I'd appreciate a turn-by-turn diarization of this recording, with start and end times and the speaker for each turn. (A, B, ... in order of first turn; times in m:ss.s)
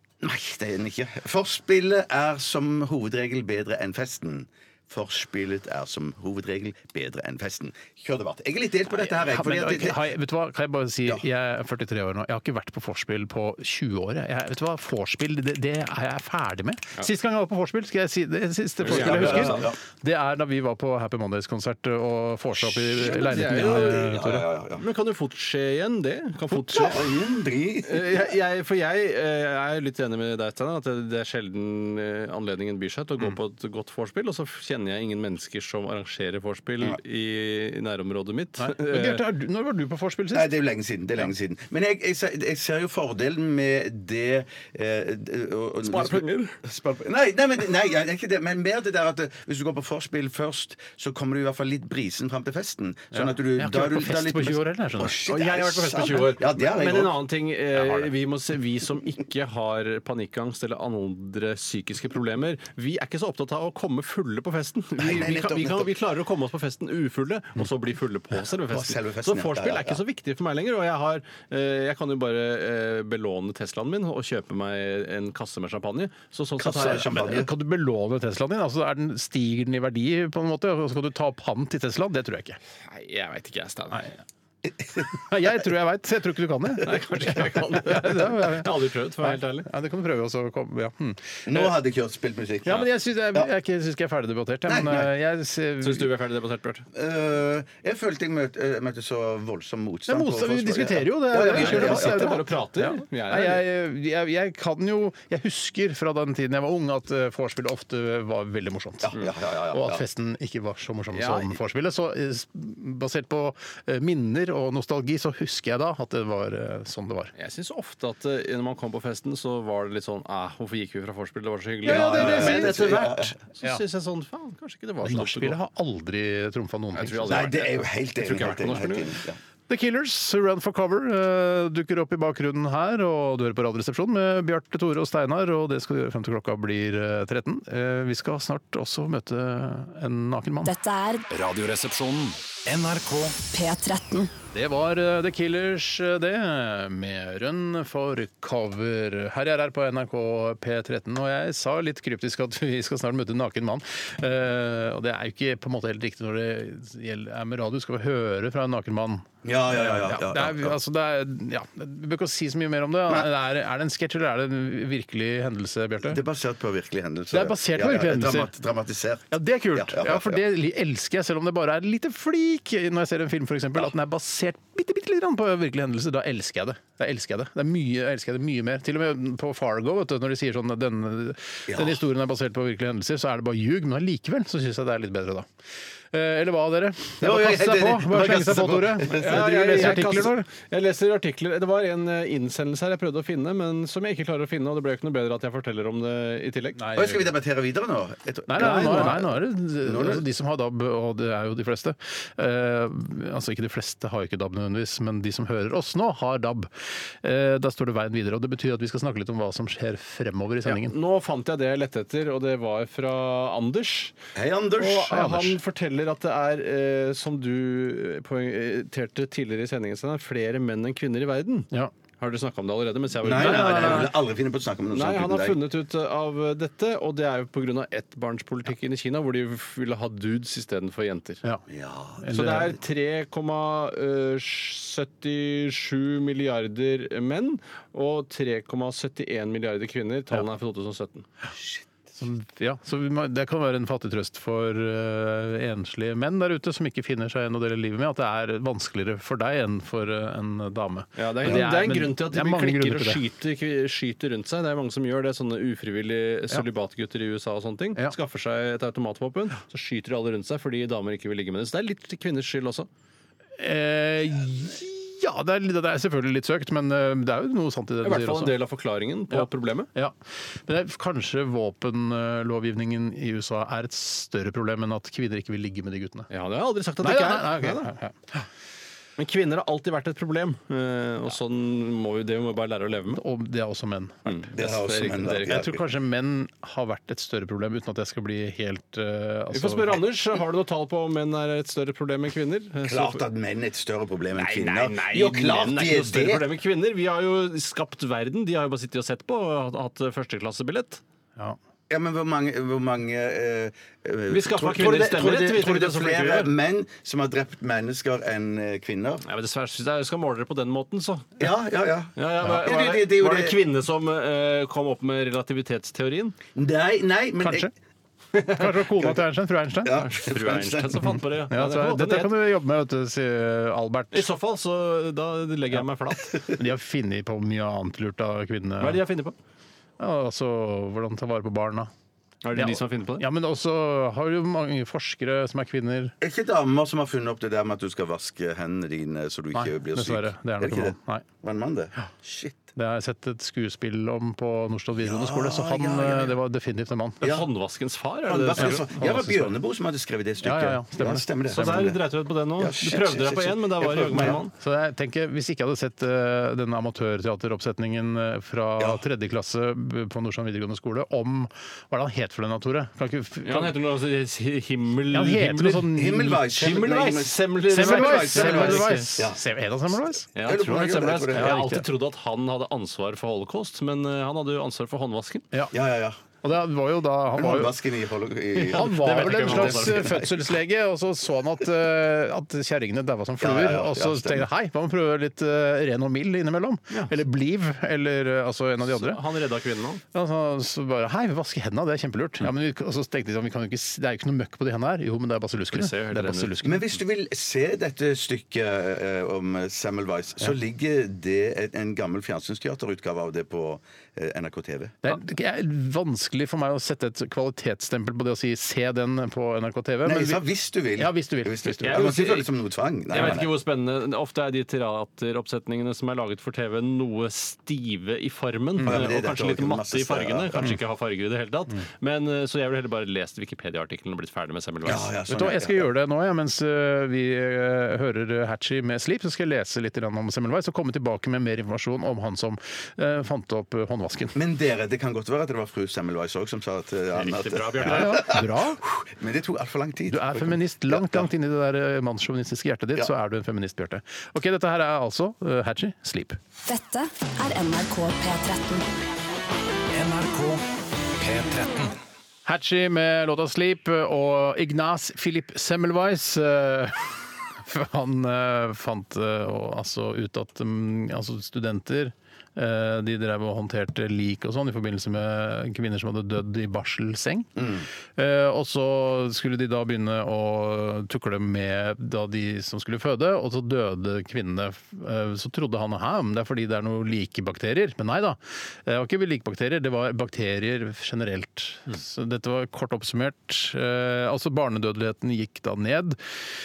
0:00.2-0:10.0 A
0:09.0-0:24.4 B
0:18.8-0:19.7 C
0:18.8-0:19.8 A
0:22.6-0:24.8 A
0:23.0-0:24.1 C
0:24.8-0:27.0 C
0:26.7-0:28.3 A
0:27.8-0:39.2 C
0:38.6-0:40.5 B
0:40.3-0:57.1 A
0:45.8-0:46.6 C
0:53.1-0:55.2 B
0:55.2-1:17.1 C
1:05.0-1:05.9 A
1:08.7-1:10.0 A
1:16.6-1:17.5 A
1:16.8-1:22.6 B
1:22.8-1:24.1 C
1:24.7-1:25.1 A
1:25.1-1:31.7 B
1:26.8-1:29.7 C
1:31.4-1:33.5 A
1:32.6-1:36.1 B
1:34.6-1:35.1 A
1:35.8-1:36.8 C
1:36.9-1:42.5 A
1:40.1-1:49.1 B
1:41.5-1:43.6 C
1:49.0-1:50.0 A
1:49.7-1:57.3 B
1:51.1-1:51.6 C
1:57.4-2:05.6 C
2:01.8-2:03.0 B
2:01.8-2:03.3 A
2:05.0-2:07.5 B
2:06.9-2:09.1 C
2:07.3-2:09.4 A
2:09.7-2:20.7 B
2:20.6-2:21.2 D
2:21.3-2:23.4 E
2:23.5-2:24.3 D
2:24.5-2:46.2 B
2:39.4-2:40.8 A
2:46.0-2:50.4 A
2:47.3-2:48.5 B
2:49.3-3:05.5 B
3:01.7-3:02.0 A
3:06.1-3:10.5 B
3:07.2-3:10.2 A
3:09.1-3:16.8 C
3:16.8-3:17.3 B
3:16.9-3:19.3 A
3:18.5-3:30.9 B
3:18.6-3:19.2 C
3:19.8-3:20.2 A
3:30.6-3:34.1 C
3:34.3-3:35.4 A
3:34.8-3:44.1 C
3:35.1-3:35.6 B
3:43.2-3:45.6 A
3:43.3-3:44.1 B
3:44.9-3:51.4 C
3:51.7-3:52.2 A
3:52.2-3:52.7 B
3:52.3-4:01.3 C
4:02.2-4:13.2 B
4:11.2-4:22.9 C
4:23.6-4:28.6 B
4:28.0-4:29.9 C
4:29.3-4:36.3 B
4:36.3-4:37.9 C
4:37.0-4:38.4 B
4:39.2-4:43.2 C
4:43.1-4:44.5 B
4:44.2-4:45.5 C
4:44.5-4:45.8 A
4:45.2-4:50.0 B
4:49.5-4:53.2 C
4:52.8-4:56.5 A
4:54.4-5:01.0 C
5:01.9-5:09.2 A
5:04.3-5:06.5 C
5:09.2-5:11.5 C
5:11.4-5:13.6 A
5:12.2-5:16.4 C
5:16.5-5:17.7 A
5:17.4-5:17.7 B
5:18.5-5:20.0 B
5:19.8-5:21.1 A
5:19.9-5:22.3 C
5:21.1-5:24.3 B
5:24.1-5:26.4 C
5:26.5-5:29.0 B
5:28.8-5:29.3 C
5:30.0-5:31.9 B
5:32.4-5:33.2 C
5:32.5-5:36.1 B
5:36.2-5:42.6 A
5:39.5-5:41.2 B
5:42.8-5:47.2 B
5:45.0-5:46.4 A
5:47.2-5:47.5 A
5:47.2-5:48.9 C
5:48.3-5:52.0 A
5:48.6-5:49.5 B
5:50.4-5:51.2 B
5:51.5-5:54.5 C
5:52.6-5:54.4 A
5:54.5-6:03.7 B
6:03.4-6:05.9 C
6:05.1-6:06.4 B
6:05.9-6:09.4 A
6:06.4-6:09.1 C
6:07.7-6:10.3 B
6:10.4-6:11.6 A
6:10.4-6:15.4 C
6:11.3-6:11.8 B
6:15.7-6:16.2 A
6:16.4-6:17.7 B
6:17.4-6:20.3 A
6:18.6-6:20.2 C
6:18.7-6:29.2 B
6:23.4-6:24.5 A
6:28.8-6:30.0 C
6:30.1-6:36.8 B
6:35.7-6:36.6 C
6:36.6-6:44.9 A
6:45.0-6:50.4 B
6:50.0-6:53.5 A
6:51.0-6:52.1 B
6:51.8-6:52.5 C
6:53.1-7:05.1 C
6:58.8-7:00.8 A
7:04.8-7:05.9 A
7:05.3-7:14.4 B
7:14.3-7:21.3 A
7:17.1-7:18.3 C
7:17.8-7:18.8 B
7:20.1-7:26.4 B
7:26.6-7:28.8 D
7:29.9-7:30.6 E
7:31.2-7:31.9 E
7:32.4-8:06.2 B
7:47.6-7:47.8 A